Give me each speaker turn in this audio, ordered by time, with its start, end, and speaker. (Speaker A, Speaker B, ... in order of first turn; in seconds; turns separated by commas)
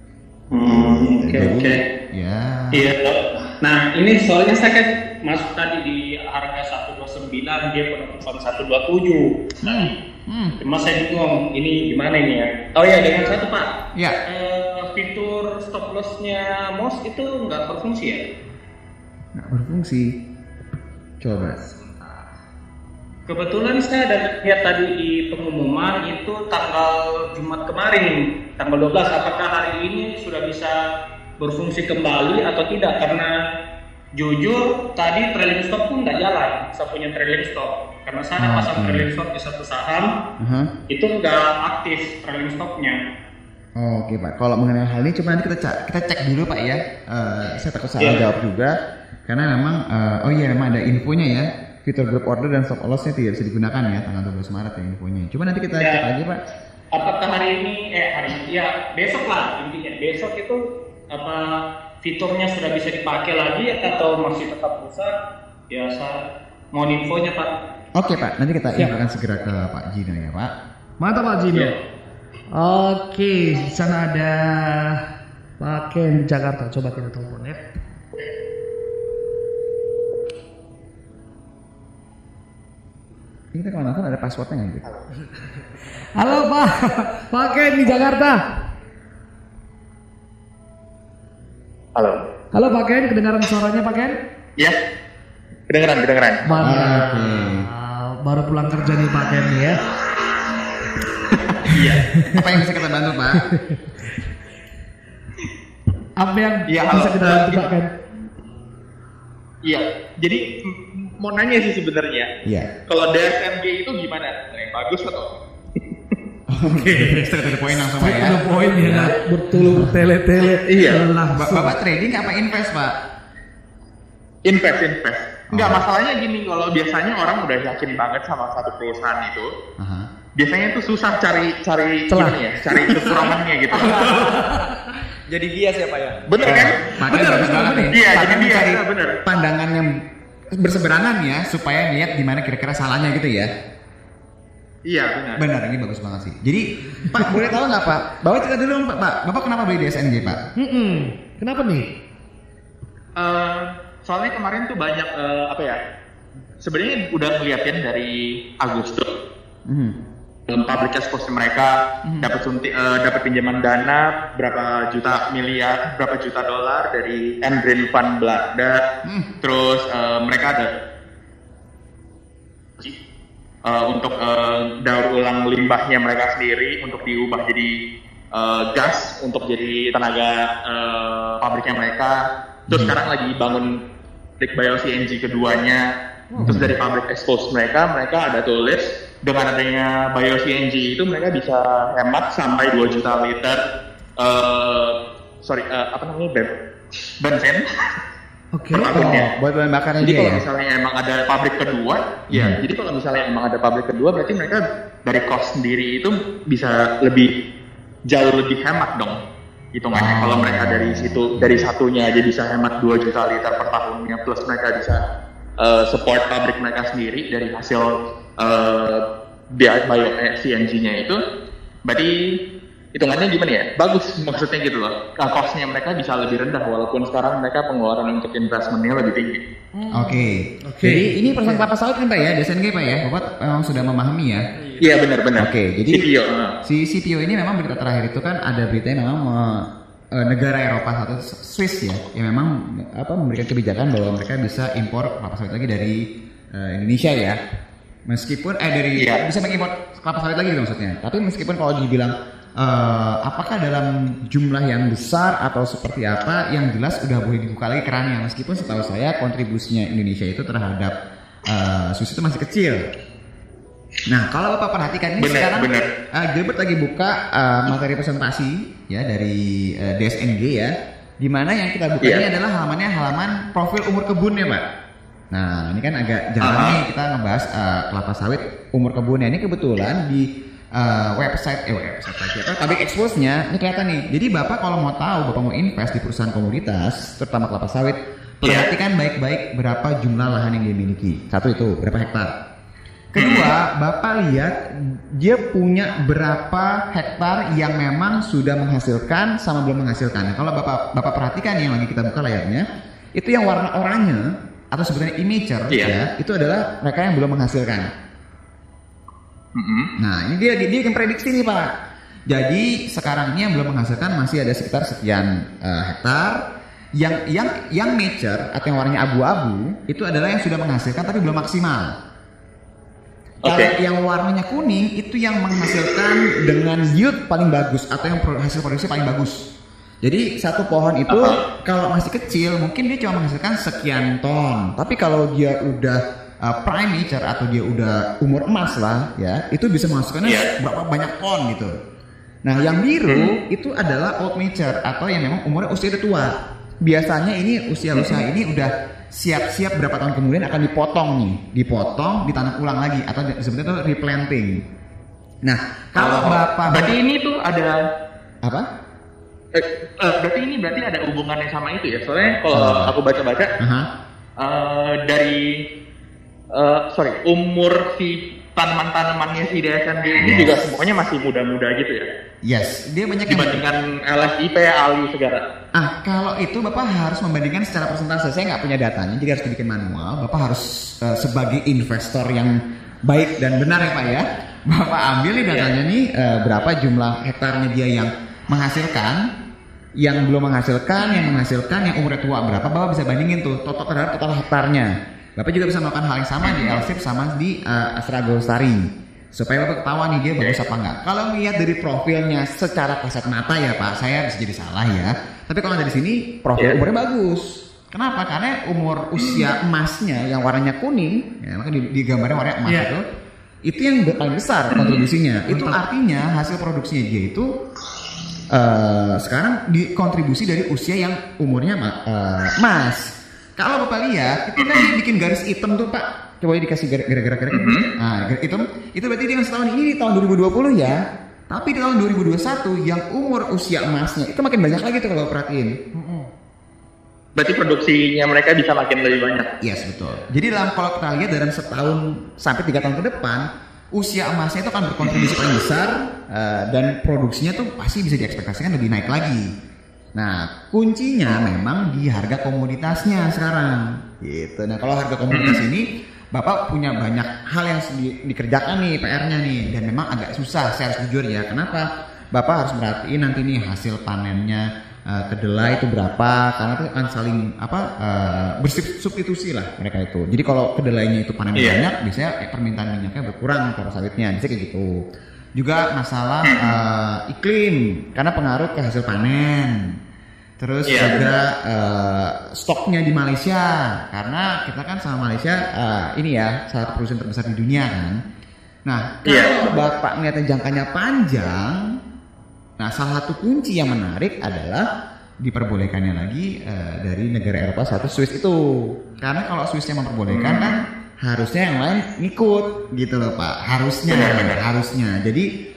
Speaker A: 0.5-1.9, Speaker B: 0.6-2.9, Speaker A: 2.7-9.9, Speaker B: 9.6-10.6, Speaker A: 10.6-13.7, Speaker A: 14.3-18.3, Speaker B: 19.4-20.2, Speaker B: 21.2-21.6, Speaker C: 21.3-22.3, Speaker A: 23.3-30.8, Speaker A: 31.4-33.3, Speaker A: 34.1-40.1, Speaker B: 38.4-39.1, Speaker B: 40.4-40.7, Speaker A: 40.9-43.0, Speaker B: 43.8-48.7, Speaker B: 49.2-56.4, Speaker A: 55.8-56.0, Speaker A: 56.9-65.1, Speaker A: 65.7-66.2, Speaker A: 66.7-67.6, Speaker B: 68.0-70.5, Speaker D: 71.0-71.7, Speaker D: 72.5-75.0, Speaker D: 75.6-77.6, Speaker B: 83.5-84.8, Speaker D: 86.1-88.4, Speaker E: 92.0-92.2, Speaker D: 92.5-94.2, Speaker E: 95.7-96.7, Speaker D: 96.5-99.8, Speaker B: 96.6-97.7, Speaker E: 101.7-102.0, Speaker D: 101.7-102.4, Speaker B: 102.3-103.5, Speaker D: 103.3-103.8, Speaker D: 106.2-107.9, Speaker E: 106.7-107.7, Speaker E: 109.6-112.3, Speaker B: 112.4-112.7, Speaker E: 112.9-115.3, Speaker B: 116.5-120.0, Speaker D: 116.6-117.3, Speaker D: 118.0-121.7, Speaker E: 120.6-121.0, Speaker B: 121.3-123.0, Speaker E: 124.5-129.5, Speaker B: 125.5-125.8, Speaker B: 129.8-130.1, Speaker E: 130.4-134.3, Speaker D: 132.1-133.4, Speaker C: 133.7-134.3, Speaker D: 134.0-134.6, Speaker C: 135.3-136.2, Speaker E: 136.3-136.8, Speaker B: 136.4-140.0, Speaker D: 136.9-137.9, Speaker E: 137.9-139.2, Speaker B: 140.6-143.5, Speaker E: 144.9-145.4, Speaker B: 145.4-150.4, Speaker D: 150.6-151.9, Speaker E: 153.2-155.8, Speaker E: 156.6-159.1, Speaker B: 159.7-159.9, Speaker E: 160.5-168.8, Speaker B: 169.0-169.3, Speaker E: 169.4-170.7, Speaker E: 173.6-177.7, Speaker E: 178.3-183.7, Speaker B: 182.7-183.0, Speaker E: 184.4-185.8, Speaker D: 186.3-186.7, Speaker B: 186.4-186.7, Speaker E: 186.4-193.6, Speaker E: 194.2-196.5, Speaker E: 197.2-197.6, Speaker D: 198.5-199.0, Speaker E: 198.7-199.3, Speaker B: 198.9-200.4, Speaker E: 200.0-207.3, Speaker B: 202.3-202.6, Speaker E: 208.1-209.2, Speaker E: 209.7-215.0, Speaker B: 209.9-211.7, Speaker E: 215.6-219.0, Speaker E: 219.6-221.2, Speaker E: 221.9-222.1, Speaker E: 222.9-229.4, Speaker D: 229.7-231.7, Speaker B: 229.9-234.4, Speaker E: 234.8-236.6, Speaker B: 235.4-236.1, Speaker B: 236.6-246.0, Speaker B: 246.5-247.4, Speaker B: 248.1-260.9, Speaker E: 248.9-249.2, Speaker B: 261.4-262.9, Speaker B: 264.1-274.6, Speaker E: 265.2-265.9, Speaker B: 275.3-292.3, Speaker E: 276.4-276.8, Speaker E: 288.4-288.7, Speaker B: 293.1-302.6, Speaker E: 293.2-293.5, Speaker B: 303.2-307.9, Speaker E: 309.6-309.9, Speaker B: 310.0-311.7, Speaker B: 312.3-316.4, Speaker B: 316.9-321.9, Speaker E: 323.4-323.7, Speaker B: 323.4-329.4, Speaker B: 330.0-341.7, Speaker E: 331.1-331.4, Speaker E: 340.2-340.5, Speaker B: 342.4-354.6, Speaker E: 343.1-343.3, Speaker B: 355.4-356.9, Speaker E: 355.9-357.8, Speaker E: 359.5-363.5, Speaker B: 362.5-362.9, Speaker B: 363.6-363.9, Speaker E: 364.4-365.6, Speaker E: 366.5-372.1, Speaker B: 370.2-370.6, Speaker B: 372.4-373.6, Speaker E: 373.3-375.4, Speaker B: 375.7-389.3, Speaker E: 385.5-385.7, Speaker B: 390.0-413.0, Speaker E: 391.0-391.3, Speaker E: 396.4-396.8, Speaker E: 409.2-409.5, Speaker B: 413.6-417.5, Speaker E: 414.7-415.0, Speaker D: 415.5-415.8, Speaker B: 418.5-431.0, Speaker E: 424.6-424.9, Speaker E: 427.5-427.9, Speaker B: 431.5-435.7, Speaker D: 435.9-436.3, Speaker E: 437.4-439.5, Speaker B: 439.6-449.5, Speaker B: 450.1-475.0, Speaker E: 455.3-455.6, Speaker E: 471.6-471.8, Speaker B: 475.6-480.0, Speaker E: 476.4-476.7, Speaker B: 480.6-488.2, Speaker E: 480.9-481.3, Speaker B: 488.9-491.8, Speaker E: 489.2-489.9, Speaker B: 492.8-494.9, Speaker B: 495.4-505.5, Speaker E: 500.3-500.8, Speaker E: 504.1-504.6